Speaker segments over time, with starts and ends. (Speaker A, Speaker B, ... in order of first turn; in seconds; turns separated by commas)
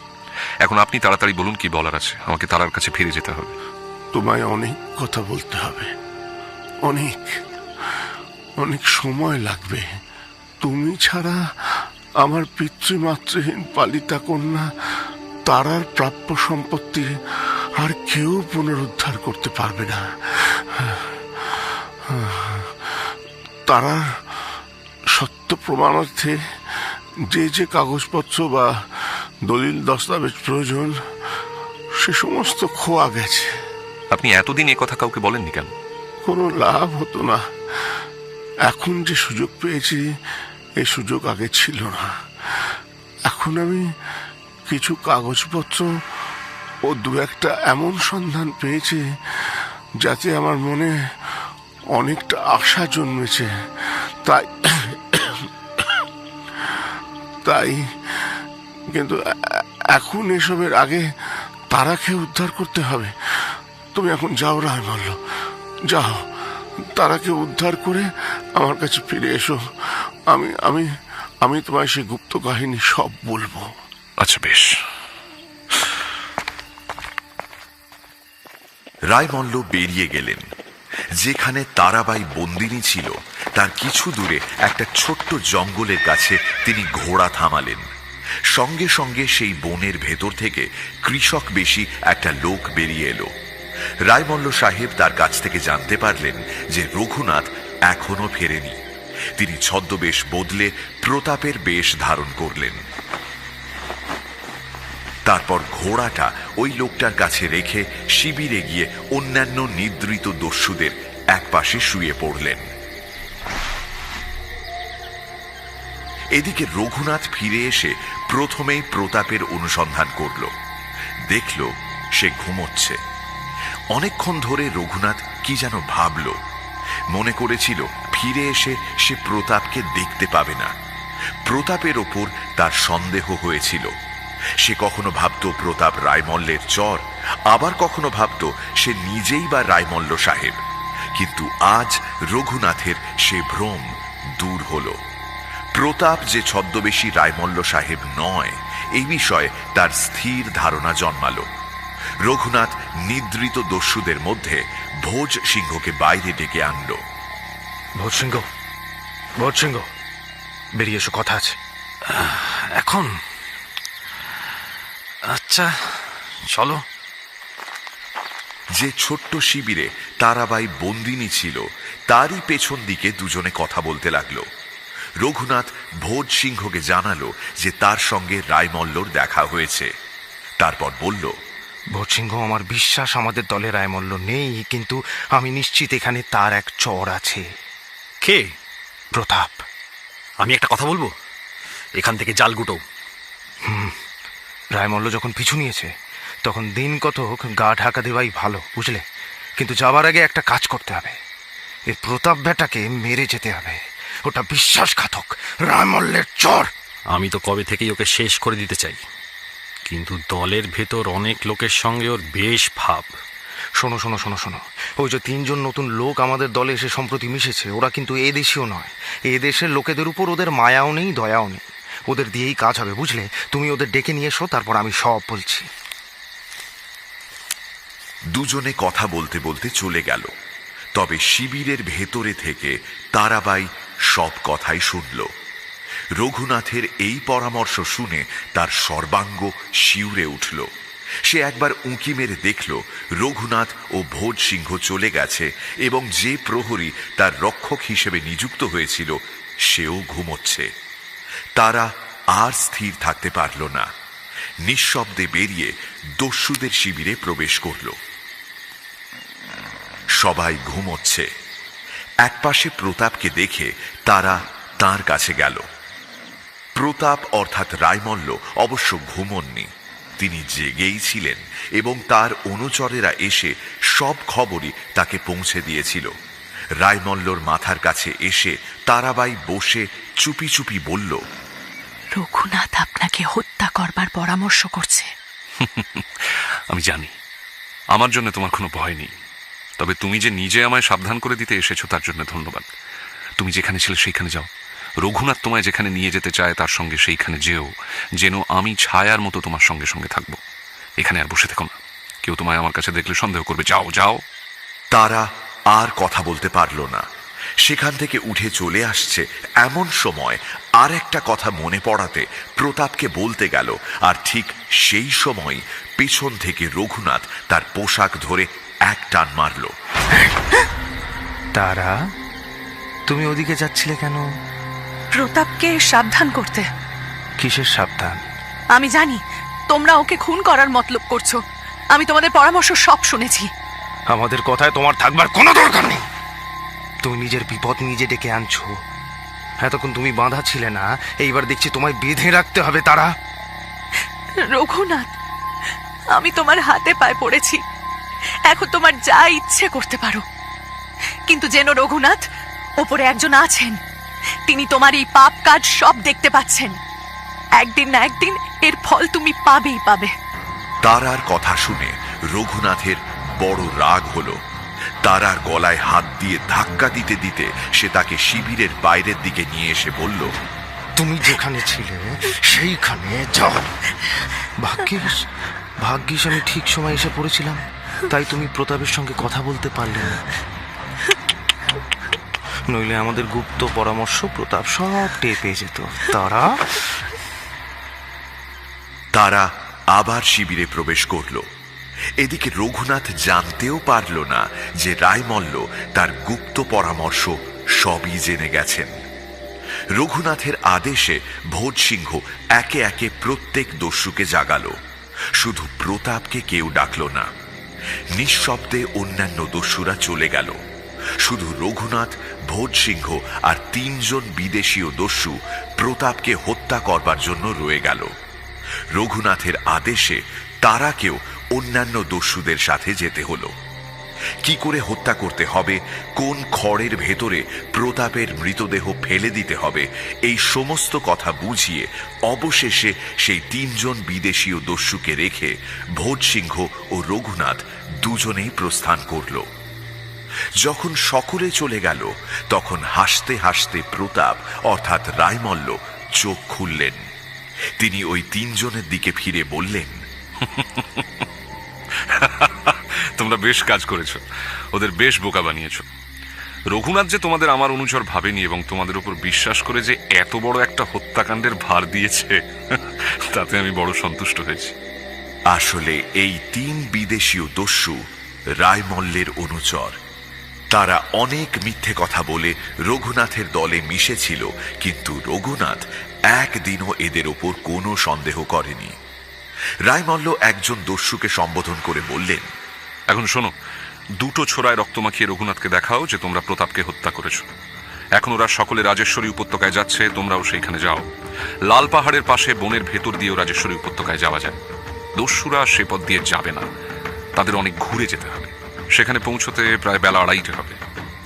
Speaker A: 0.6-3.5, Speaker B: 4.1-5.9, Speaker B: 6.8-7.4, Speaker B: 8.6-9.8, Speaker B: 10.6-23.1, Speaker B: 23.7-24.2, Speaker B: 25.1-31.0, Speaker B: 32.0-33.5, Speaker A: 34.1-35.7, Speaker B: 36.2-38.0, Speaker B: 38.6-40.1, Speaker B: 40.8-42.7, Speaker B: 43.3-43.9, Speaker B: 44.7-45.9, Speaker B: 46.8-51.4, Speaker B: 51.9-56.1, Speaker B: 56.6-56.9, Speaker B: 57.4-61.0, Speaker B: 61.7-65.2, Speaker B: 65.9-66.3, Speaker B: 66.9-70.9, Speaker B: 71.4-73.7, Speaker A: 74.2-74.8, Speaker C: 79.1-80.4, Speaker C: 81.2-87.8, Speaker C: 88.5-93.3, Speaker C: 94.1-98.8, Speaker C: 99.3-102.8, Speaker C: 105.2-112.6, Speaker C: 116.3-120.5, Speaker C: 121.3-123.0, Speaker C: 123.9-126.4, Speaker C: 127.1-130.7, Speaker C: 131.4-133.9, Speaker C: 134.6-140.6, Speaker C: 141.1-145.0, Speaker C: 145.7-151.5, Speaker C: 152.2-157.0, Speaker D: 158.0-158.4, Speaker D: 159.4-159.9, Speaker D: 160.8-161.6, Speaker C: 168.7-174.5, Speaker C: 175.2-179.9, Speaker C: 180.6-181.4, Speaker D: 181.9-187.4, Speaker E: 188.2-188.5, Speaker D: 189.1-189.6, Speaker E: 190.4-191.1, Speaker E: 192.0-192.8, Speaker D: 193.7-193.9, Speaker D: 194.7-195.9, Speaker D: 196.4-199.0, Speaker D: 199.6-201.2, Speaker D: 201.9-206.7, Speaker E: 207.1-209.0, Speaker E: 209.9-213.1, Speaker D: 213.8-225.7, Speaker C: 228.3-230.3, Speaker C: 230.9-235.3, Speaker C: 236.2-240.7, Speaker C: 241.2-250.7, Speaker C: 251.6-253.9, Speaker C: 254.6-258.0, Speaker C: 260.1-261.3, Speaker C: 262.2-265.7, Speaker C: 266.8-276.1, Speaker C: 276.8-281.2, Speaker F: 282.1-285.1, Speaker A: 285.6-287.1, Speaker A: 287.9-289.1, Speaker A: 289.8-292.7, Speaker A: 293.4-294.5, Speaker A: 295.0-300.4, Speaker A: 301.0-301.7, Speaker A: 302.2-304.2, Speaker C: 304.9-307.0, Speaker C: 307.6-319.7, Speaker D: 321.5-322.0, Speaker D: 323.1-324.2, Speaker F: 325.1-326.6, Speaker D: 327.4-328.2, Speaker F: 328.7-331.4, Speaker F: 331.9-333.5, Speaker D: 334.1-336.0, Speaker D: 337.0-338.7, Speaker D: 339.6-343.1, Speaker F: 344.4-345.1, Speaker F: 346.1-347.6, Speaker F: 348.5-350.2, Speaker F: 351.3-352.2, Speaker F: 352.8-353.8, Speaker F: 354.5-356.8, Speaker F: 357.6-360.1, Speaker C: 360.8-364.4, Speaker C: 365.0-370.3, Speaker D: 371.0-373.7, Speaker D: 374.4-375.3, Speaker D: 375.8-380.2, Speaker D: 382.7-386.8, Speaker C: 389.1-391.5, Speaker C: 392.2-398.9, Speaker C: 399.9-404.8, Speaker C: 405.4-407.3, Speaker C: 408.1-410.6, Speaker C: 411.2-418.1, Speaker C: 418.9-423.5, Speaker C: 424.4-439.5, Speaker C: 440.6-447.0, Speaker C: 447.8-450.0, Speaker A: 450.4-451.2, Speaker A: 452.0-454.2, Speaker A: 454.7-455.9, Speaker A: 456.7-464.7, Speaker C: 465.5-468.0, Speaker C: 468.6-470.0, Speaker C: 470.7-478.9, Speaker C: 479.9-482.5, Speaker A: 483.1-483.5, Speaker A: 484.2-487.4, Speaker A: 488.2-491.1, Speaker A: 491.7-494.6, Speaker A: 495.2-496.6, Speaker A: 497.4-500.8